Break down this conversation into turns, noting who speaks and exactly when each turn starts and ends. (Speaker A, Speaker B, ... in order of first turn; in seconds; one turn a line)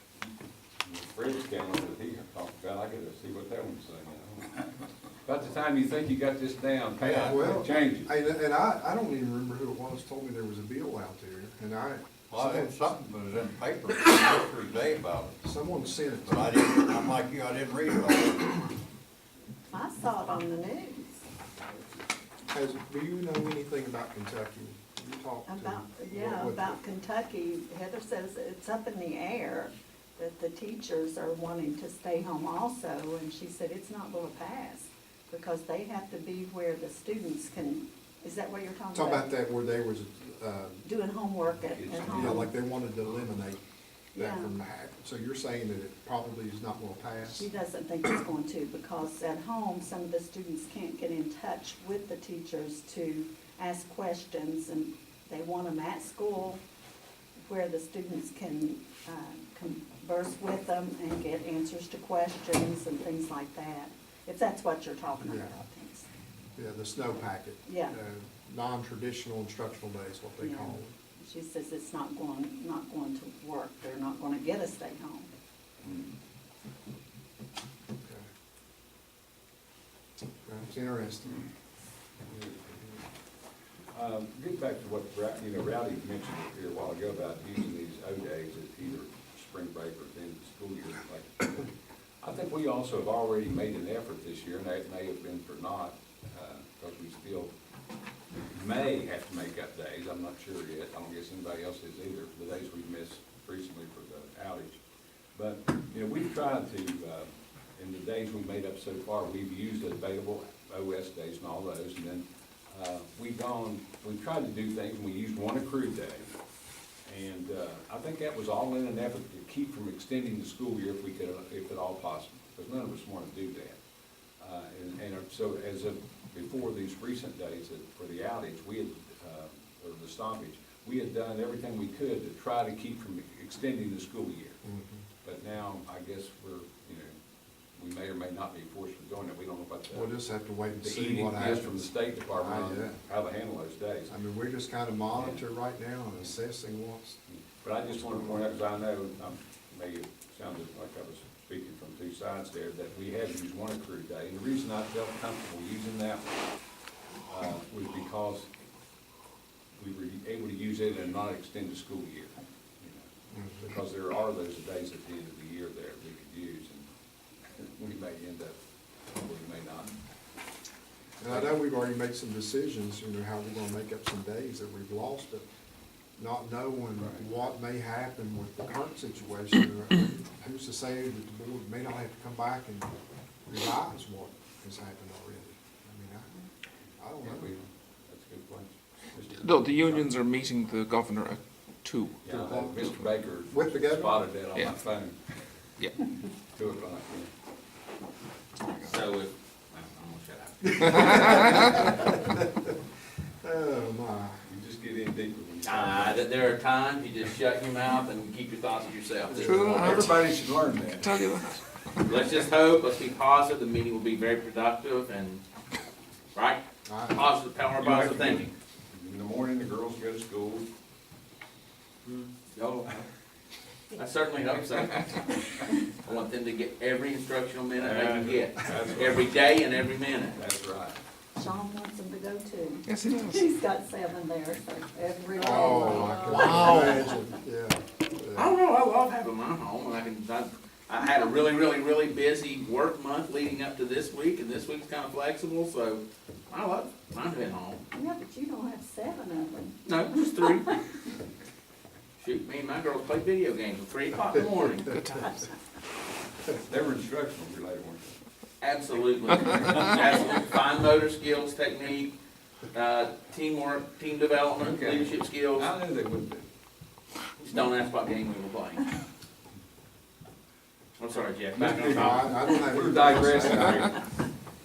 Speaker A: 0.8-4.6
Speaker A: 5.2-8.1
Speaker B: 7.0-7.4
Speaker C: 7.2-12.8
Speaker B: 12.3-15.4
Speaker C: 15.4-16.6
Speaker B: 16.3-18.7
Speaker D: 19.7-21.2
Speaker C: 22.5-26.8
Speaker D: 25.5-39.3
Speaker C: 38.9-40.9
Speaker D: 40.8-42.5
Speaker A: 41.7-42.5
Speaker C: 42.1-43.6
Speaker D: 44.1-44.5
Speaker C: 44.1-47.5
Speaker D: 47.2-56.6
Speaker D: 57.5-66.1
Speaker C: 65.2-65.6
Speaker C: 66.6-70.9
Speaker D: 67.7-68.0
Speaker D: 70.4-75.3
Speaker A: 75.8-76.1
Speaker C: 78.0-78.3
Speaker C: 80.5-81.5
Speaker A: 82.3-82.6
Speaker C: 82.5-82.8
Speaker A: 83.9-97.5
Speaker A: 98.5-104.8
Speaker A: 105.3-116.3
Speaker A: 117.0-123.8
Speaker A: 124.4-134.6
Speaker C: 134.6-135.0
Speaker A: 135.2-137.1
Speaker A: 137.8-140.1
Speaker C: 139.9-143.0
Speaker A: 140.8-144.1
Speaker C: 144.1-147.2
Speaker A: 147.3-156.4
Speaker C: 148.0-148.4
Speaker A: 157.3-158.5
Speaker A: 159.8-166.9
Speaker C: 163.3-163.7
Speaker A: 167.6-168.6
Speaker A: 169.1-169.9
Speaker C: 171.2-175.5
Speaker A: 171.3-171.5
Speaker C: 176.2-182.9
Speaker C: 183.5-187.5
Speaker A: 187.2-190.1
Speaker E: 189.4-191.4
Speaker F: 189.5-191.2
Speaker F: 191.8-192.1
Speaker A: 192.2-195.2
Speaker C: 192.3-192.9
Speaker C: 193.5-194.2
Speaker A: 196.5-197.3
Speaker F: 198.8-201.3
Speaker C: 200.8-202.8
Speaker C: 203.4-204.4
Speaker A: 204.4-206.2
Speaker F: 205.6-209.5
Speaker A: 209.3-211.2
Speaker E: 209.4-210.2
Speaker C: 209.4-210.0
Speaker E: 211.0-211.6
Speaker F: 212.0-215.4
Speaker F: 216.3-218.5
Speaker C: 216.8-217.2
Speaker A: 217.8-220.7
Speaker F: 222.0-223.1
Speaker F: 223.9-230.4
Speaker A: 227.8-229.4
Speaker A: 230.3-231.0
Speaker D: 231.4-237.2
Speaker E: 232.9-233.5
Speaker C: 235.4-238.5
Speaker F: 238.4-247.8
Speaker D: 247.9-250.8
Speaker F: 249.8-250.8
Speaker F: 252.2-254.9
Speaker A: 256.5-258.2
Speaker F: 258.6-262.1
Speaker F: 262.7-265.7
Speaker A: 264.6-266.4
Speaker F: 267.4-268.9
Speaker F: 271.0-272.4
Speaker C: 271.6-273.9
Speaker A: 272.5-274.1